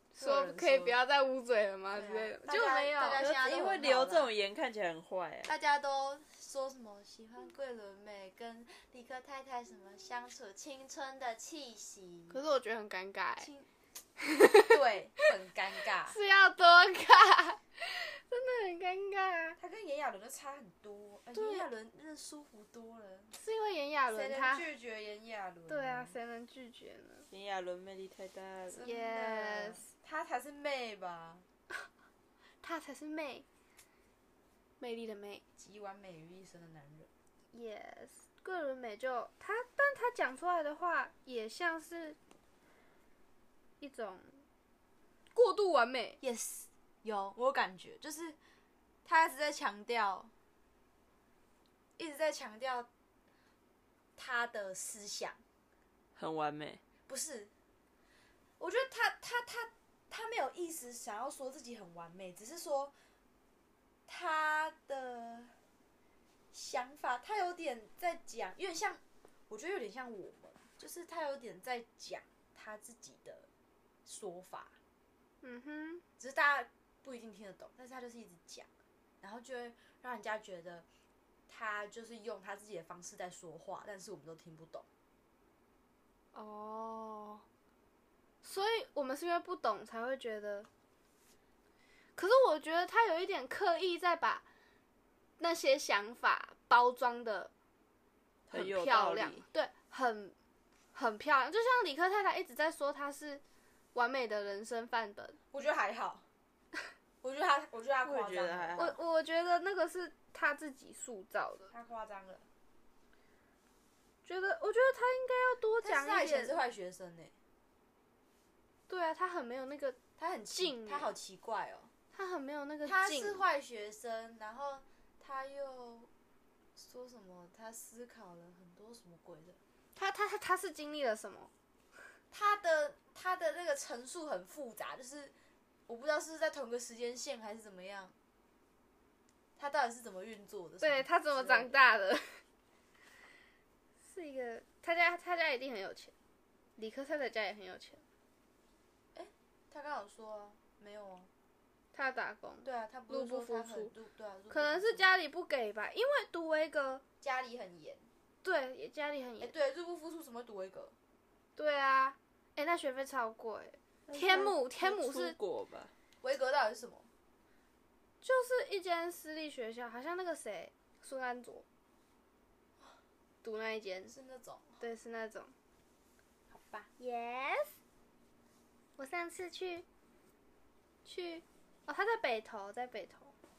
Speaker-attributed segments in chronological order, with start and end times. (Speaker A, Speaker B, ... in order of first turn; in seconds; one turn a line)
Speaker A: 0.1-3.2
Speaker B: 0.1-0.9
Speaker B: 1.9-4.3
Speaker C: 3.2-5.5
Speaker B: 5.4-12.4
Speaker A: 12.3-13.5
Speaker B: 13.4-13.7
Speaker A: 14.2-14.8
Speaker B: 14.6-16.1
Speaker A: 16.1-19.6
Speaker B: 19.6-23.3
Speaker A: 21.3-21.6
Speaker A: 23.3-24.7
Speaker B: 24.1-26.1
Speaker A: 25.7-27.3
Speaker C: 27.3-28.8
Speaker B: 28.7-31.4
Speaker A: 28.8-29.9
Speaker A: 32.6-33.5
Speaker A: 34.8-35.4
Speaker B: 35.6-37.1
Speaker A: 37.5-42.2
Speaker A: 43.8-44.4
Speaker A: 45.3-46.2
Speaker B: 46.2-48.4
Speaker B: 49.0-50.3
Speaker B: 52.0-52.9
Speaker B: 54.1-55.4
Speaker C: 56.1-56.8
Speaker B: 57.1-57.5
Speaker B: 58.6-62.9
Speaker B: 64.1-65.6
Speaker B: 66.5-73.5
Speaker B: 74.0-74.7
Speaker A: 75.4-76.0
Speaker B: 76.2-78.7
Speaker B: 79.2-80.8
Speaker B: 81.5-84.8
Speaker A: 86.3-87.4
Speaker A: 88.4-90.7
Speaker A: 92.2-94.4
Speaker A: 95.4-97.5
Speaker C: 98.5-99.4
Speaker A: 98.5-100.3
Speaker A: 100.9-103.4
Speaker A: 103.9-105.4
Speaker B: 105.5-106.2
Speaker B: 107.2-108.9
Speaker C: 108.0-109.0
Speaker A: 108.8-111.7
Speaker B: 111.7-112.5
Speaker A: 114.2-116.6
Speaker B: 115.8-117.3
Speaker A: 118.9-120.0
Speaker B: 120.2-121.9
Speaker A: 120.5-121.1
Speaker A: 122.1-123.4
Speaker B: 122.8-126.1
Speaker B: 126.8-129.6
Speaker A: 129.9-131.5
Speaker B: 132.3-135.3
Speaker B: 135.9-138.1
Speaker B: 139.6-141.7
Speaker A: 140.8-142.4
Speaker A: 144.0-146.1
Speaker A: 146.8-148.0
Speaker B: 149.1-151.3
Speaker A: 151.9-153.9
Speaker B: 152.6-155.1
Speaker A: 154.5-157.0
Speaker B: 157.2-158.1
Speaker A: 158.4-159.5
Speaker B: 159.4-160.9
Speaker A: 161.6-165.3
Speaker C: 164.1-165.9
Speaker B: 166.2-167.1
Speaker A: 168.2-171.6
Speaker A: 173.4-174.1
Speaker B: 174.1-174.8
Speaker A: 174.8-175.5
Speaker B: 176.5-176.9
Speaker A: 177.0-177.8
Speaker A: 179.0-179.8
Speaker A: 181.0-183.3